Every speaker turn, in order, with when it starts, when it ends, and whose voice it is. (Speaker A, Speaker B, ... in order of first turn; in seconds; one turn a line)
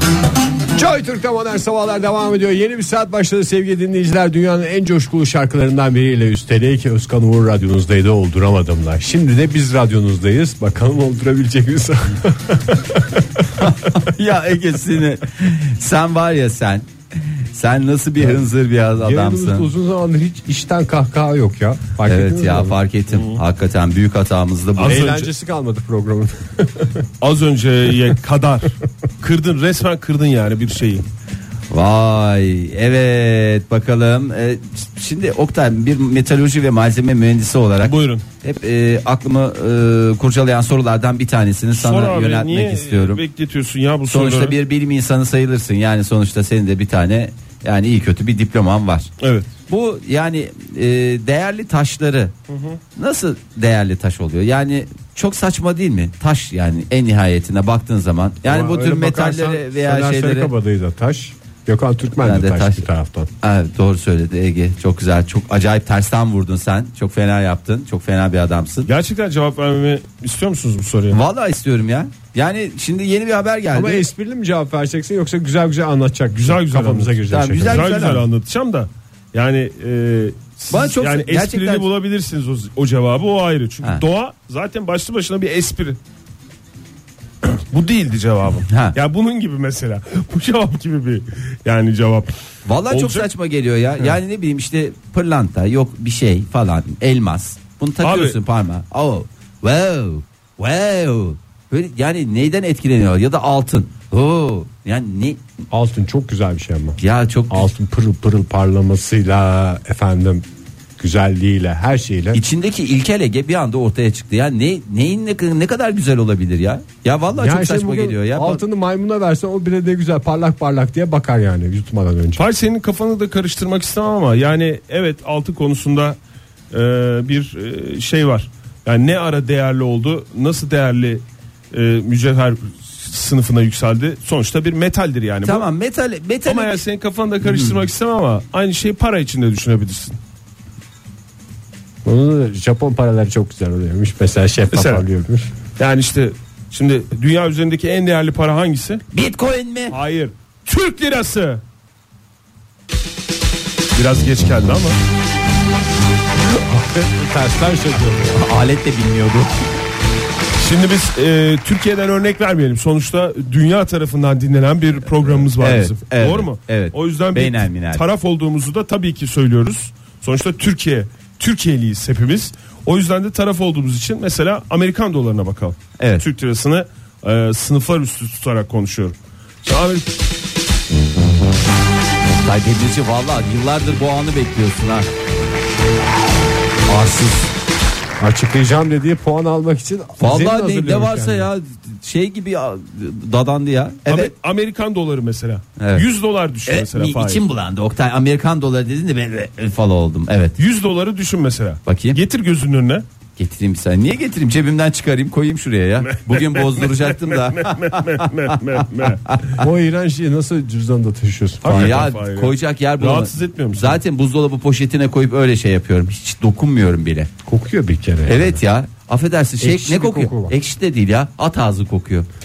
Speaker A: 0.7-14.1
Speaker B: 13.6-19.7
Speaker A: 19.0-22.8
Speaker B: 22.1-25.1
Speaker C: 23.1-23.4
Speaker C: 24.8-25.3
Speaker A: 24.9-27.0
Speaker C: 27.2-31.1
Speaker B: 31.7-43.2
Speaker C: 37.8-38.2
Speaker C: 41.7-44.5
Speaker B: 44.1-49.1
Speaker C: 49.2-49.5
Speaker B: 49.7-52.3
Speaker C: 52.5-52.8
Speaker B: 53.0-60.5
Speaker A: 58.5-63.3
Speaker B: 62.2-62.9
Speaker B: 63.4-68.9
Speaker C: 68.9-71.2
Speaker B: 71.1-74.0
Speaker A: 73.7-78.2
Speaker C: 76.3-86.0
Speaker B: 77.3-78.2
Speaker B: 80.7-81.9
Speaker C: 87.4-92.3
Speaker B: 88.7-89.0
Speaker B: 92.7-105.4
Speaker C: 92.9-93.3
Speaker C: 98.0-98.4
Speaker A: 105.7-107.0
Speaker B: 107.0-107.7
Speaker A: 107.5-110.5
Speaker A: 111.0-112.4
Speaker B: 112.3-118.6
Speaker A: 117.3-122.4
Speaker C: 122.4-126.2
Speaker C: 126.7-135.7
Speaker B: 135.4-136.8
Speaker C: 136.5-140.2
Speaker B: 137.4-137.8
Speaker A: 142.1-145.5
Speaker C: 144.7-145.1
Speaker C: 145.8-149.1
Speaker B: 149.1-150.0
Speaker C: 149.9-151.6
Speaker C: 153.9-155.0
Speaker A: 156.4-158.4
Speaker B: 158.3-159.7
Speaker C: 160.6-180.1
Speaker B: 165.6-168.0
Speaker B: 176.0-176.2
Speaker B: 182.4-185.1
Speaker B: 186.9-187.5
Speaker A: 188.2-191.5
Speaker B: 190.2-194.3
Speaker C: 194.1-197.4
Speaker B: 195.8-196.1
Speaker B: 196.7-200.6
Speaker C: 200.6-203.1
Speaker B: 201.9-202.2
Speaker B: 203.4-208.6
Speaker C: 206.1-209.5
Speaker B: 209.3-209.6
Speaker A: 209.6-212.1
Speaker C: 211.6-214.0
Speaker B: 211.7-217.3
Speaker A: 217.4-218.6
Speaker B: 218.3-222.3
Speaker A: 219.6-220.6